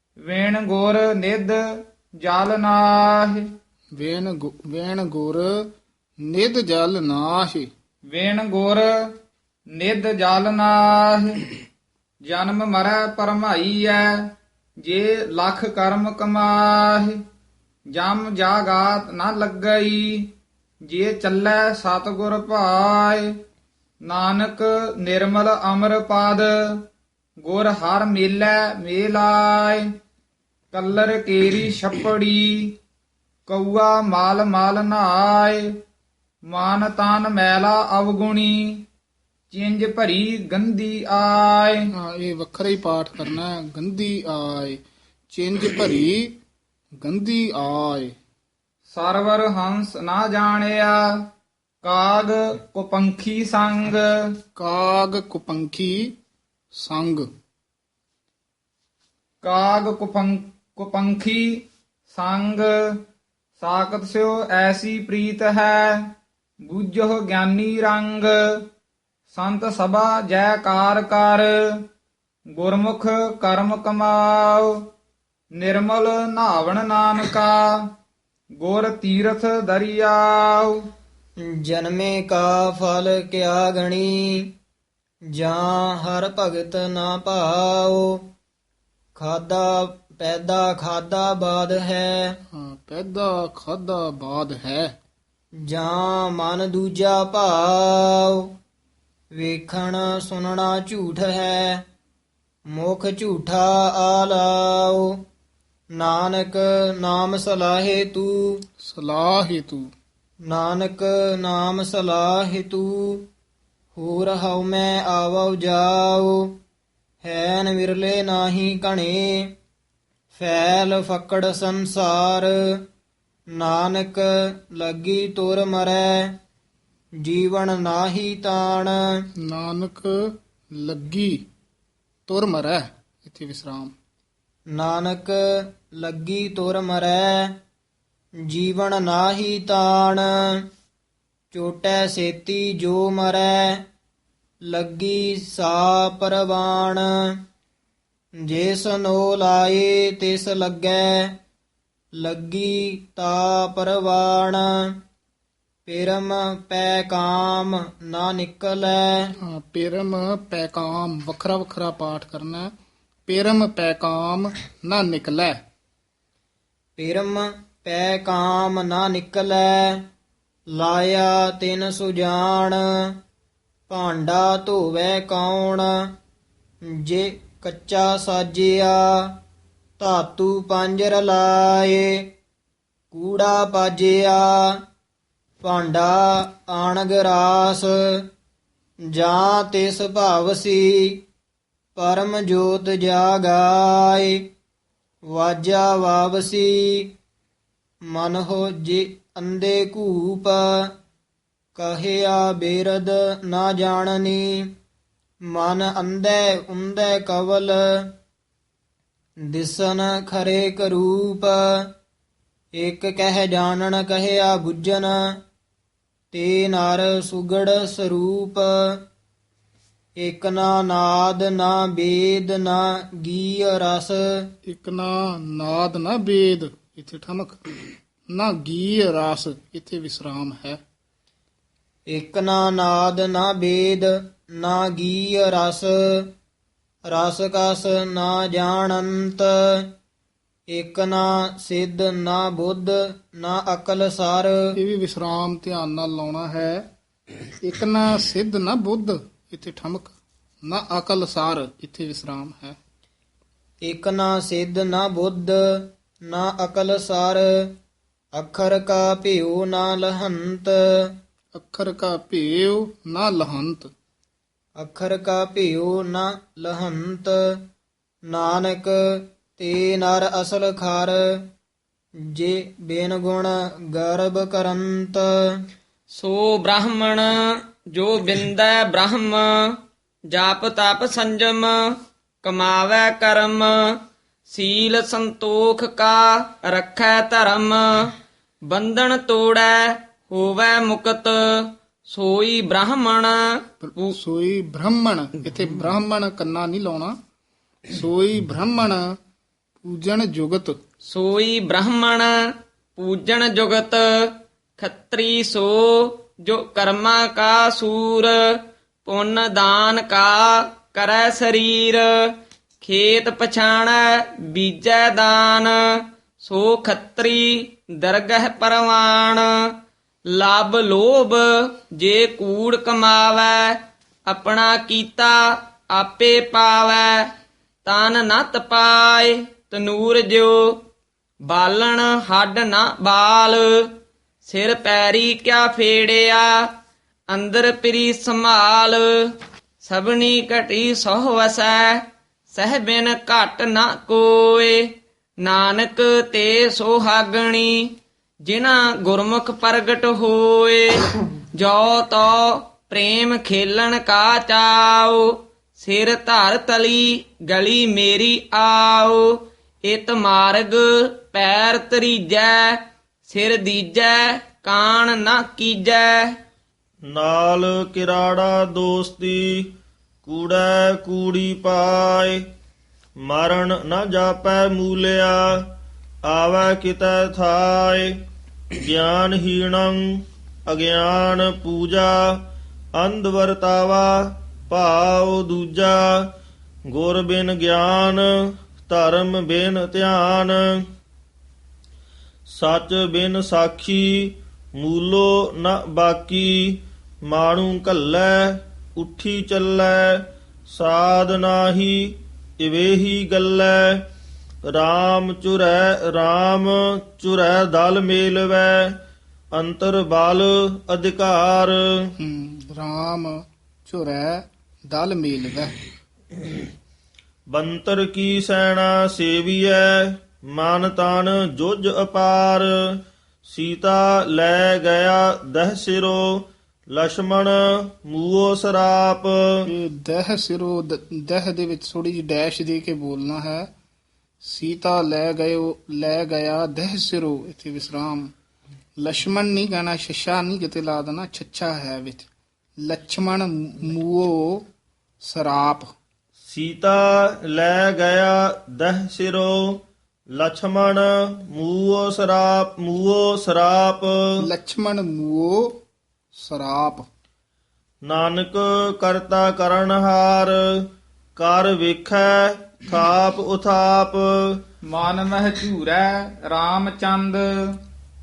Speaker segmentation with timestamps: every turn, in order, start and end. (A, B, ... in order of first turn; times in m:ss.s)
0:00.3-0:01.6 A
0:02.2-0:03.4 A
0:04.0-0:05.6 B
0:06.2-0:07.7 B
0:08.1-0:08.9 A
0:09.8-0:11.5 A
0:12.3-0:14.2 A
0:14.8-0:17.2 A
0:18.0-0:20.3 A
0:20.9-0:23.3 A
0:24.1-0:26.8 A
0:27.4-0:29.8 A
0:30.7-0:32.8 A
0:33.5-0:35.7 A
0:36.5-0:38.8 A
0:39.5-0:41.9 A
0:41.9-0:44.8 B
0:45.3-0:46.3 B
0:47.0-0:48.1 B
0:48.9-0:51.0 A
0:51.8-0:54.1 A
0:54.6-0:56.2 B
0:56.7-0:57.3 B
0:59.4-1:03.0 A
1:03.6-1:06.0 A
1:06.7-1:08.4 A
1:09.3-1:11.5 A
1:12.6-1:14.8 A
1:15.6-1:17.6 A
1:18.6-1:20.8 A
1:21.4-1:24.5 C
1:25.3-1:28.2 C
1:29.2-1:32.4 C
1:32.5-1:34.9 B
1:35.6-1:38.5 C
1:39.3-1:41.8 C
1:42.8-1:45.2 C
1:46.0-1:48.6 C
1:48.8-1:49.9 B
1:50.5-1:53.3 C
1:54.0-1:56.5 C
1:57.2-1:59.5 C
2:00.3-2:02.7 C
2:03.6-2:06.3 C
2:07.2-2:09.1 C
2:09.4-2:11.4 B
2:12.3-2:13.9 B
2:14.8-2:17.6 C
2:18.5-2:20.6 C
2:21.5-2:23.8 C
2:24.7-2:27.4 C
2:28.4-2:31.4 C
2:32.2-2:34.9 C
2:35.8-2:39.3 C
2:39.4-2:42.7 B
2:43.3-2:45.6 B
2:47.0-2:50.0 C
2:50.8-2:53.1 C
2:53.9-2:56.1 C
2:56.9-2:59.4 C
3:00.0-3:02.3 C
3:03.1-3:04.8 C
3:05.6-3:08.2 C
3:09.1-3:11.2 C
3:12.0-3:14.4 C
3:15.3-3:17.1 C
3:18.1-3:20.9 C
3:21.8-3:24.7 C
3:25.5-3:28.1 C
3:29.5-3:31.9 C
3:32.8-3:35.4 C
3:36.3-3:39.0 C
3:40.2-3:44.5 C
3:44.7-3:50.8 B
3:52.1-3:56.3 C
3:57.1-3:59.9 C
4:00.7-4:04.6 C
4:04.8-4:06.9 B
4:07.6-4:10.1 B
4:10.6-4:12.8 B
4:13.9-4:17.7 C
4:18.4-4:21.1 C
4:21.5-4:23.9 B
4:24.8-4:27.6 C
4:28.3-4:31.4 C
4:32.3-4:35.3 C
4:36.1-4:39.8 D
4:40.3-4:41.9 D
4:42.4-4:48.1 D
4:48.7-4:54.2 D
4:53.9-4:57.2 B
4:57.9-4:59.0 B
4:59.8-5:00.8 B
5:01.0-5:02.4 D
5:03.0-5:19.7 D
5:20.3-5:27.3 D
5:27.8-5:30.8 D
5:31.5-5:36.7 D
5:37.3-5:44.9 D
5:45.4-6:06.4 D
6:07.1-6:09.7 E
6:10.2-6:12.4 E
6:13.2-6:15.6 E
6:16.2-6:18.1 E
6:18.7-6:20.0 E
6:20.7-6:22.4 E
6:23.0-6:26.0 E
6:26.9-6:28.3 E
6:28.9-6:30.7 E
6:32.5-6:44.0 E
6:44.7-6:48.9 E
6:49.5-6:51.8 E
6:52.2-6:55.8 B
6:57.5-7:02.7 E
7:03.4-7:09.3 E
7:09.7-7:13.7 B
7:14.4-7:18.3 B
7:19.0-7:22.3 B
7:22.8-7:24.6 B
7:25.2-7:25.9 B
7:26.5-7:29.8 E
7:30.3-7:34.2 E
7:34.4-7:35.8 B
7:36.3-7:37.1 B
7:38.0-7:40.6 E
7:41.4-7:44.6 E
7:44.9-7:47.8 A